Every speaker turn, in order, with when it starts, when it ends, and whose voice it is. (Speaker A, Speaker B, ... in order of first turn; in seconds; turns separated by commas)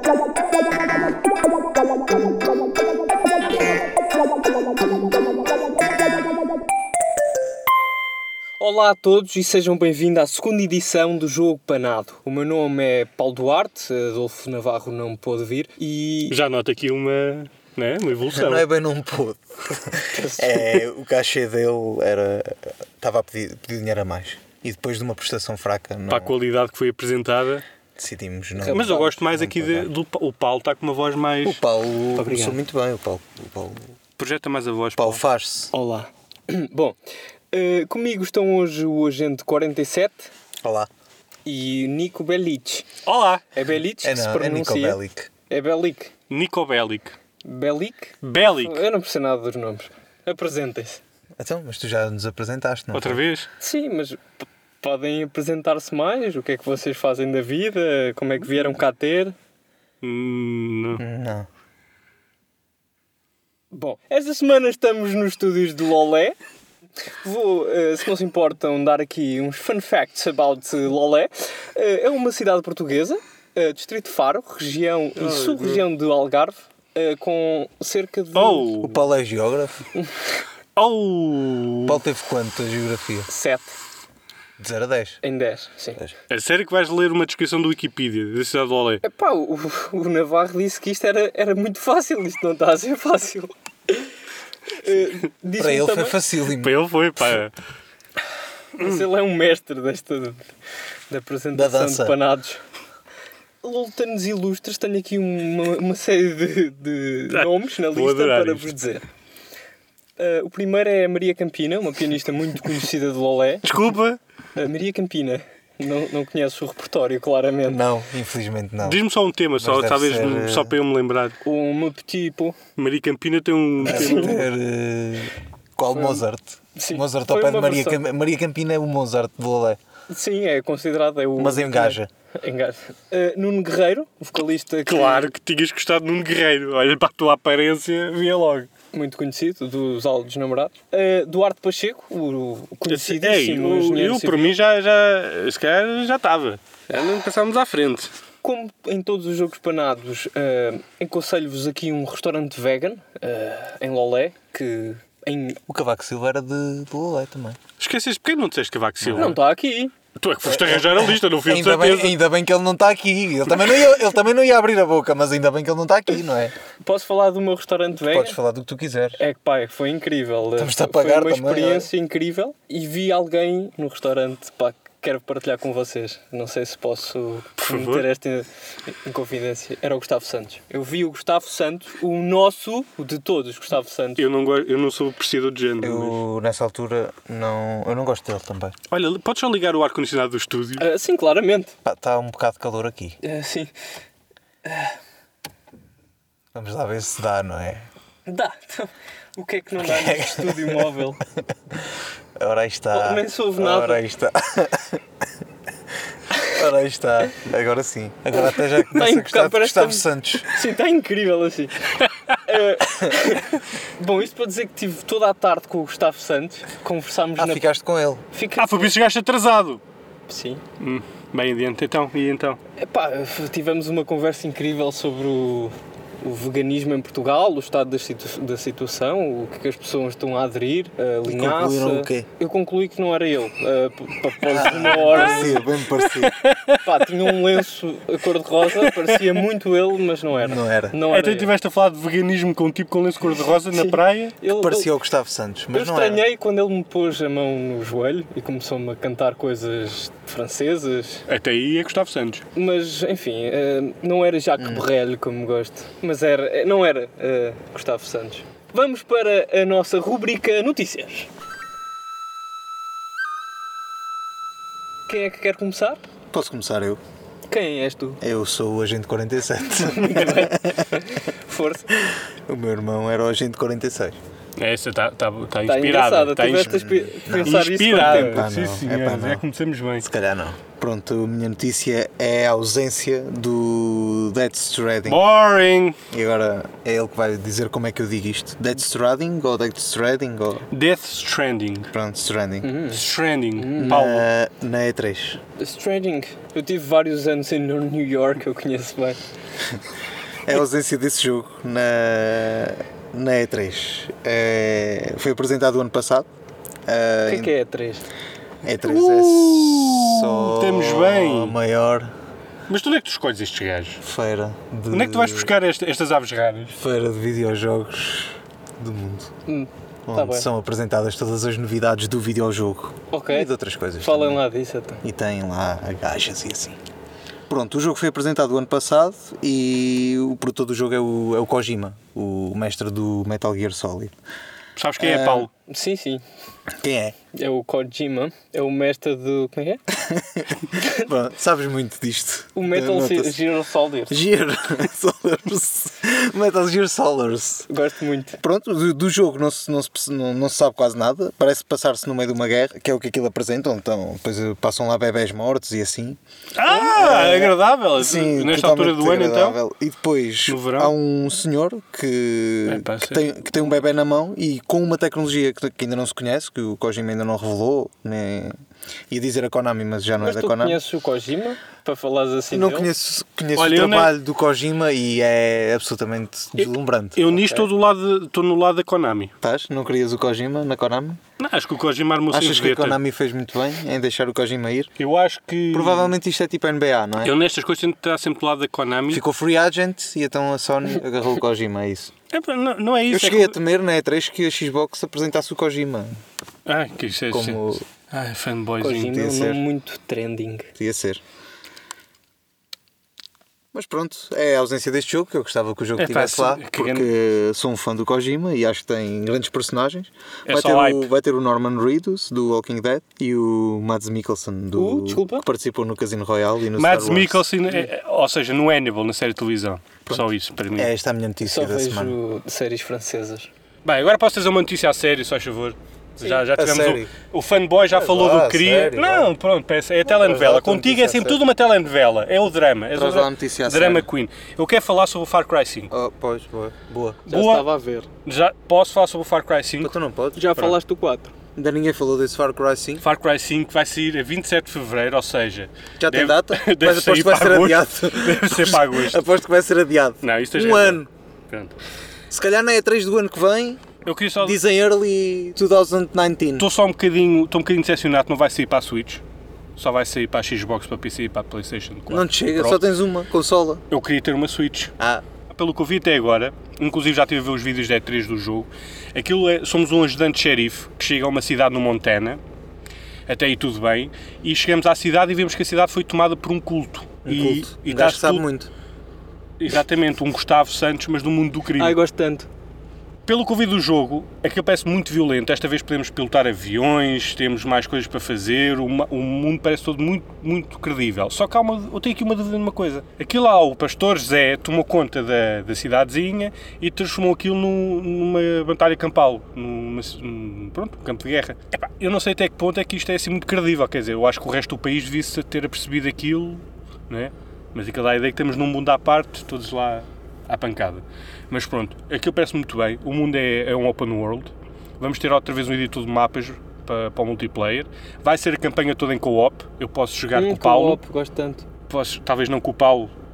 Speaker A: 8.6-16.4, Speaker B: 16.3-18.7, Speaker C: 18.3-26.3, Speaker A: 20.1-20.8, Speaker B: 26.1-27.6, Speaker C: 28.0-29.9, Speaker A: 28.6-29.2, Speaker B: 28.7-31.6, Speaker C: 31.4-33.9, Speaker A: 32.2-32.6, Speaker B: 34.2-35.2, Speaker C: 35.0-35.7, Speaker A: 35.7-37.0, Speaker A: 37.5-40.3, Speaker C: 40.6-40.9, Speaker A: 41.5-42.9, Speaker B: 43.0-43.4, Speaker A: 43.5-45.0, Speaker C: 44.0-45.3, Speaker A: 45.5-46.1, Speaker B: 46.3-47.2, Speaker A: 47.4-51.0, Speaker B: 48.2-48.9, Speaker C: 51.4-53.2, Speaker B: 52.9-53.5, Speaker A: 53.6-54.2, Speaker A: 54.8-59.4, Speaker B: 60.0-61.0, Speaker C: 61.0-61.5, Speaker A: 63.7-66.4, Speaker A: 67.2-78.9, Speaker B: 75.2-75.8, Speaker B: 78.3-78.9, Speaker C: 78.8-79.8, Speaker B: 80.8-82.0, Speaker C: 81.8-83.3, Speaker A: 83.3-83.8, Speaker C: 84.6-85.2, Speaker A: 85.2-86.1, Speaker B: 86.3-89.0, Speaker A: 89.0-94.1, Speaker A: 94.8-96.2, Speaker C: 95.6-96.8, Speaker B: 96.5-97.5, Speaker A: 98.8-100.4, Speaker A: 101.1-102.6, Speaker C: 101.5-102.2, Speaker A: 103.6-109.0, Speaker B: 107.3-108.7, Speaker A: 110.2-113.7, Speaker B: 113.6-114.2, Speaker A: 114.5-117.8, Speaker C: 117.7-119.0, Speaker B: 118.8-121.4, Speaker C: 119.6-120.8, Speaker A: 121.4-122.6, Speaker B: 122.8-124.5, Speaker C: 123.8-129.8, Speaker A: 123.8-124.5, Speaker A: 125.9-126.2, Speaker A: 126.8-128.0, Speaker A: 130.1-135.3, Speaker C: 131.4-132.1, Speaker B: 134.9-138.7, Speaker A: 138.9-144.6, Speaker B: 142.9-148.1, Speaker A: 148.4-155.6, Speaker C: 155.7-157.6, Speaker B: 157.8-159.4, Speaker C: 159.0-159.4, Speaker A: 159.1-159.9, Speaker B: 160.2-162.2, Speaker C: 160.4-166.5, Speaker A: 166.8-168.4, Speaker C: 168.0-169.2, Speaker A: 169.2-184.3, Speaker C: 170.6-171.9, Speaker B: 177.6-178.1, Speaker B: 184.2-186.2, Speaker C: 185.8-188.8, Speaker B: 188.9-190.9, Speaker A: 190.8-191.8, Speaker C: 191.8-193.2, Speaker A: 193.2-193.7, Speaker A: 194.7-194.9, Speaker C: 196.5-197.9, Speaker A: 198.3-201.2, Speaker C: 199.8-200.9, Speaker C: 202.4-205.0, Speaker A: 202.9-204.0, Speaker C: 206.5-210.5, Speaker A: 208.4-211.9, Speaker A: 212.4-217.7, Speaker C: 217.4-218.2, Speaker A: 218.3-218.9, Speaker B: 218.6-219.8, Speaker A: 220.3-220.6, Speaker B: 220.8-222.6, Speaker A: 222.8-235.7, Speaker C: 231.2-232.3, Speaker C: 234.5-236.4, Speaker B: 234.8-236.9, Speaker A: 236.8-241.5, Speaker B: 238.7-239.4, Speaker C: 240.4-241.0, Speaker B: 241.1-244.4, Speaker A: 243.7-244.9, Speaker C: 244.4-246.2, Speaker A: 245.7-251.2, Speaker B: 251.3-252.4, Speaker A: 252.5-261.3, Speaker C: 254.6-254.9, Speaker A: 265.1-266.0, Speaker C: 266.3-267.0, Speaker A: 267.5-268.2, Speaker C: 268.2-270.9, Speaker A: 269.8-271.9, Speaker C: 272.1-274.2, Speaker B: 274.6-276.8, Speaker A: 275.6-278.5, Speaker C: 276.6-279.4, Speaker B: 277.4-280.1, Speaker C: 280.0-285.2, Speaker B: 285.1-286.0, Speaker C: 286.1-290.7, Speaker B: 290.7-291.9, Speaker C: 291.9-292.8, Speaker A: 292.6-293.0, Speaker B: 292.9-294.3, Speaker A: 293.6-294.0, Speaker C: 293.8-295.4, Speaker A: 295.6-299.2, Speaker C: 300.4-306.3, Speaker C: 306.9-307.5, Speaker A: 307.3-308.1, Speaker C: 308.6-312.1, Speaker B: 308.8-311.6, Speaker B: 312.7-314.0, Speaker C: 314.0-315.5, Speaker B: 314.9-316.8, Speaker C: 316.8-319.3, Speaker A: 319.5-320.5, Speaker C: 320.1-324.4, Speaker A: 323.1-325.0, Speaker C: 325.0-326.8, Speaker C: 327.5-334.1, Speaker B: 334.8-335.5, Speaker C: 335.0-335.5, Speaker A: 335.7-336.2, Speaker C: 336.8-337.2, Speaker A: 337.3-339.8, Speaker C: 340.1-343.4, Speaker A: 340.8-341.0, Speaker A: 342.6-344.2, Speaker C: 344.1-347.7, Speaker A: 347.7-348.4, Speaker C: 348.4-368.5, Speaker B: 356.6-359.6, Speaker B: 360.5-360.9, Speaker B: 362.7-363.3, Speaker C: 369.1-370.8, Speaker A: 370.2-372.9, Speaker C: 372.5-377.4, Speaker B: 373.6-374.1, Speaker B: 376.6-379.3, Speaker C: 379.4-381.2, Speaker B: 381.4-383.0, Speaker C: 382.3-384.9, Speaker B: 385.0-386.1, Speaker C: 385.7-387.4, Speaker B: 387.2-389.2, Speaker C: 389.1-392.1, Speaker B: 392.3-393.6, Speaker C: 393.1-396.2, Speaker B: 396.7-399.2, Speaker C: 397.3-397.9, Speaker A: 398.8-400.7, Speaker C: 399.1-399.6, Speaker C: 400.8-401.2, Speaker C: 403.7-417.5, Speaker B: 406.0-407.1, Speaker B: 410.5-411.1, Speaker A: 414.8-415.4, Speaker B: 416.8-420.9, Speaker C: 420.1-422.2, Speaker A: 421.4-423.5, Speaker B: 423.9-435.9, Speaker C: 426.2-427.1, Speaker C: 427.9-429.3, Speaker C: 430.1-431.4, Speaker C: 432.9-434.1, Speaker C: 435.9-437.3, Speaker A: 437.3-438.1, Speaker B: 437.3-437.7, Speaker B: 438.2-439.9, Speaker C: 439.8-440.5, Speaker A: 440.4-441.3, Speaker C: 441.6-443.1, Speaker B: 443.0-449.2, Speaker C: 446.0-451.1, Speaker B: 450.2-451.8, Speaker C: 452.3-453.9, Speaker B: 454.1-454.6, Speaker C: 454.4-456.7, Speaker B: 456.6-459.2, Speaker B: 459.8-462.8, Speaker C: 462.1-463.8, Speaker B: 463.9-464.9, Speaker C: 465.0-465.2, Speaker B: 465.5-472.4, Speaker B: 473.3-478.5, Speaker C: 477.2-478.7, Speaker B: 479.6-482.0, Speaker A: 481.8-482.5, Speaker B: 483.3-521.0, Speaker A: 520.3-521.7, Speaker B: 521.9-523.1